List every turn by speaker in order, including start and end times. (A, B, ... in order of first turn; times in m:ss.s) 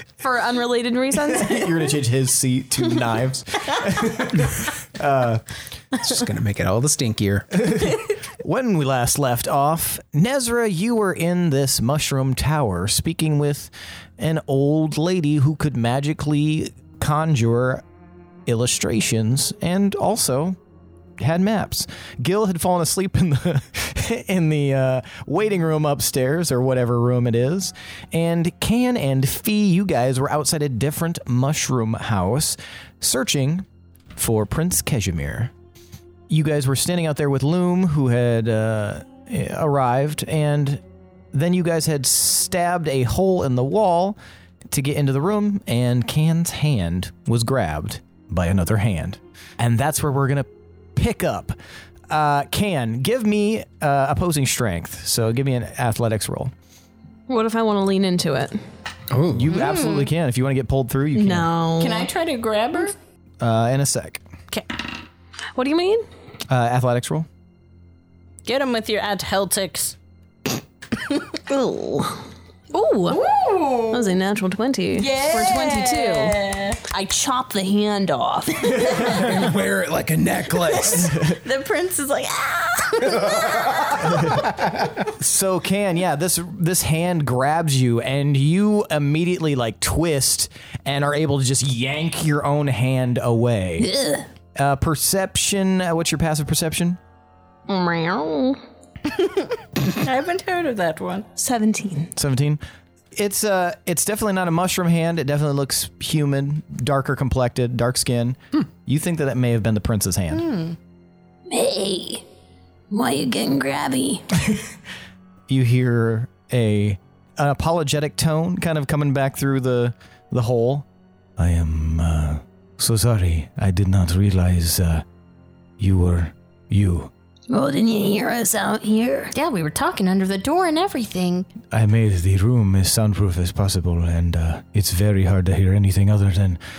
0:00.2-0:01.9 A
0:01.3-0:05.4 B
0:06.0-0:07.5 C
0:07.6-0:17.8 B
0:18.5-0:20.6 B
0:21.2-0:35.5 B
0:36.3-0:40.8 B
0:41.3-0:51.6 B
0:52.1-0:56.5 B
0:57.3-0:58.6 A
0:59.1-0:59.5 C
0:59.3-1:01.5 B
0:59.5-1:00.1 D
1:01.1-1:02.1 A
1:01.8-1:02.9 D
1:03.4-1:04.2 B
1:05.6-1:06.1 A
1:06.5-1:07.3 B
1:08.4-1:10.0 D
1:11.5-1:12.2 A
1:12.7-1:13.3 A
1:13.1-1:14.2 D
1:13.9-1:19.3 A
1:15.0-1:16.8 D
1:18.8-1:21.3 C
1:20.7-1:24.4 D
1:25.2-1:33.9 B
1:33.8-1:34.3 E
1:34.6-1:37.0 B
1:37.7-1:38.6 A
1:39.2-1:41.3 D
1:41.4-1:42.1 A
1:42.2-1:42.6 B
1:43.1-1:50.5 B
1:50.3-1:50.8 D
1:51.5-1:52.2 E
1:52.9-1:54.3 E
1:55.5-2:05.0 B
2:05.8-2:07.1 B
2:07.5-2:09.3 E
2:09.3-2:11.5 D
2:11.7-2:16.6 B